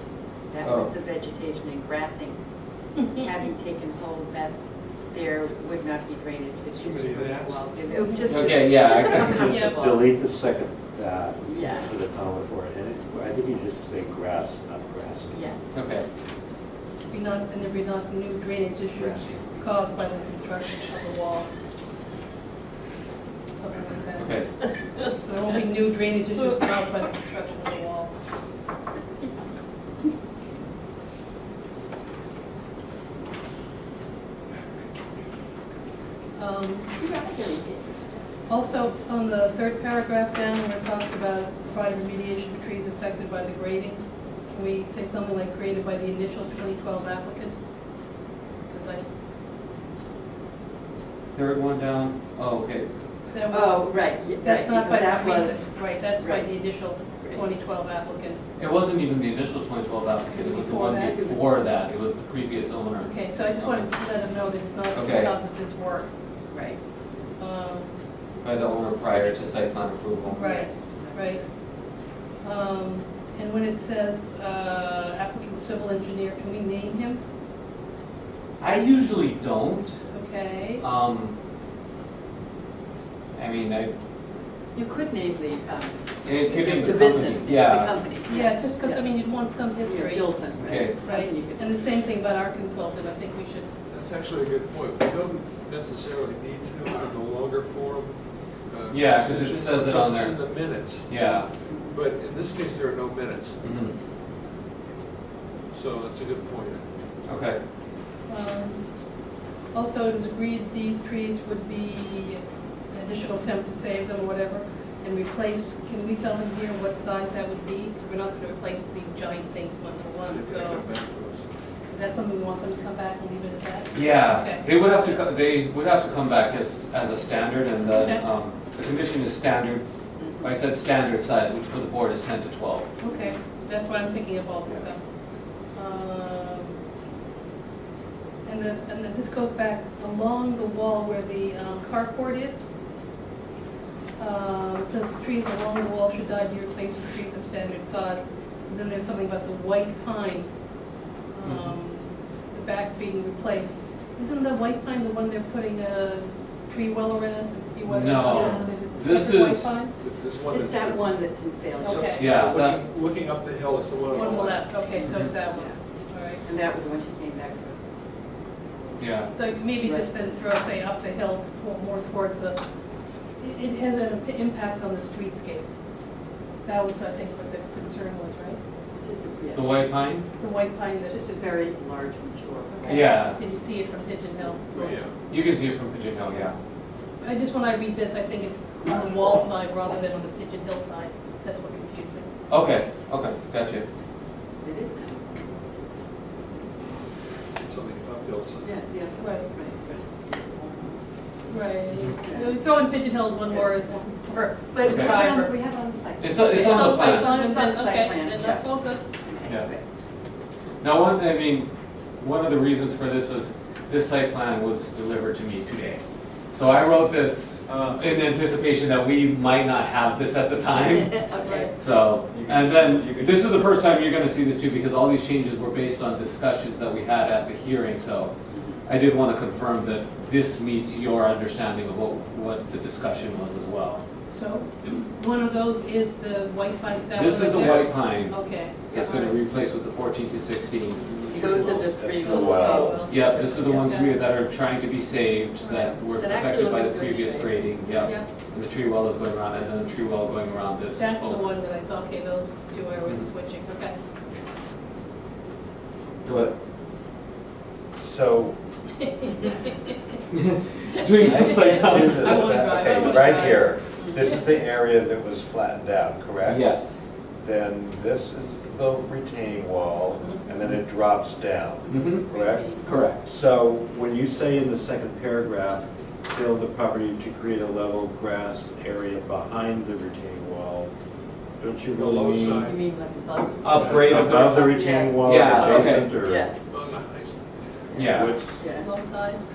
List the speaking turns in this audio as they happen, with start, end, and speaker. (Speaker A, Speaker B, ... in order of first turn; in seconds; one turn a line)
Speaker A: 0.5-2.4
Speaker B: 0.6-0.9
Speaker A: 3.1-4.6
Speaker A: 5.1-10.1
Speaker C: 6.7-7.8
Speaker D: 7.9-8.4
Speaker B: 8.3-9.4
Speaker E: 9.1-15.4
Speaker D: 9.4-9.8
Speaker A: 11.4-11.9
Speaker A: 15.3-15.7
Speaker B: 15.7-16.1
Speaker D: 17.1-21.5
Speaker D: 23.6-28.1
Speaker B: 24.2-24.6
Speaker D: 36.4-37.0
Speaker A: 36.9-38.5
Speaker D: 38.5-47.5
Speaker D: 48.7-49.0
Speaker B: 51.3-52.9
Speaker D: 53.3-58.4
Speaker A: 53.5-55.7
Speaker A: 56.2-56.5
Speaker A: 57.2-57.5
Speaker B: 58.6-63.9
Speaker D: 60.3-61.3
Speaker A: 61.0-61.5
Speaker D: 63.0-66.1
Speaker B: 64.9-65.3
Speaker A: 66.5-66.8
Speaker D: 67.4-68.0
Speaker B: 68.4-70.7
Speaker D: 70.3-71.4
Speaker A: 70.9-71.5
Speaker D: 72.4-77.2
Speaker B: 78.6-80.0
Speaker D: 80.1-80.8
Speaker B: 80.8-81.3
Speaker B: 83.3-83.9
Speaker A: 84.7-89.1
Speaker B: 86.2-88.0
Speaker D: 86.6-86.9
Speaker D: 88.2-93.7
Speaker A: 89.8-91.7
Speaker B: 90.5-91.0
Speaker C: 93.9-101.2
Speaker B: 98.9-101.5
Speaker A: 101.7-102.0
Speaker C: 101.9-103.6
Speaker B: 103.6-104.0
Speaker C: 105.7-106.8
Speaker B: 107.2-107.6
Speaker D: 108.3-108.8
Speaker D: 109.7-120.9
Speaker C: 120.3-121.5
Speaker D: 121.9-125.2
Speaker B: 123.9-129.8
Speaker D: 127.8-128.3
Speaker A: 130.2-130.6
Speaker B: 130.4-132.9
Speaker D: 133.0-135.0
Speaker A: 133.0-133.4
Speaker D: 135.7-136.8
Speaker D: 138.4-142.6
Speaker D: 144.2-150.5
Speaker D: 151.3-159.9
Speaker B: 151.4-151.7
Speaker B: 157.9-159.8
Speaker C: 160.0-161.2
Speaker A: 160.5-162.6
Speaker C: 161.8-164.6
Speaker D: 161.8-162.4
Speaker B: 162.2-162.8
Speaker D: 164.1-166.4
Speaker A: 165.5-165.8
Speaker A: 166.4-167.8
Speaker B: 169.0-169.3
Speaker D: 169.3-172.6
Speaker A: 169.8-170.3
Speaker D: 173.4-175.7
Speaker D: 176.6-178.6
Speaker A: 178.9-179.9
Speaker B: 179.5-180.3
Speaker D: 180.4-181.5
Speaker A: 181.1-183.2
Speaker D: 182.8-184.9
Speaker B: 182.9-183.4
Speaker A: 184.7-185.0
Speaker C: 184.7-185.1
Speaker B: 185.3-186.6
Speaker D: 187.2-192.3
Speaker B: 192.5-193.8
Speaker A: 194.6-196.7
Speaker C: 197.6-198.7
Speaker A: 198.6-201.0
Speaker D: 199.2-199.5
Speaker D: 201.5-205.6
Speaker A: 202.2-202.5
Speaker A: 204.7-209.8
Speaker B: 204.8-205.2
Speaker B: 206.2-207.4
Speaker D: 206.4-209.0
Speaker B: 210.8-228.3
Speaker A: 220.8-221.8
Speaker E: 222.3-223.3
Speaker A: 228.5-228.8
Speaker B: 228.8-234.0
Speaker D: 234.3-239.4
Speaker B: 237.1-241.0
Speaker C: 241.0-241.9
Speaker A: 241.3-243.9
Speaker E: 241.5-243.0
Speaker D: 242.2-244.3
Speaker B: 243.1-251.5
Speaker D: 245.6-246.0
Speaker A: 246.2-247.6
Speaker D: 248.0-248.2
Speaker D: 251.0-254.0
Speaker B: 256.2-256.6
Speaker E: 258.0-258.6
Speaker B: 260.3-263.2
Speaker D: 261.1-263.8
Speaker E: 261.2-266.8
Speaker A: 264.0-264.4
Speaker B: 266.4-267.1
Speaker E: 267.4-280.9
Speaker B: 271.9-272.2
Speaker A: 271.9-272.9
Speaker B: 272.9-273.2
Speaker E: 281.6-282.8
Speaker C: 281.9-282.8
Speaker A: 282.5-286.6
Speaker B: 283.6-286.1
Speaker E: 283.7-286.5
Speaker C: 286.7-288.0
Speaker E: 287.9-288.6
Speaker B: 287.9-288.4
Speaker A: 288.0-288.9
Speaker D: 288.7-289.4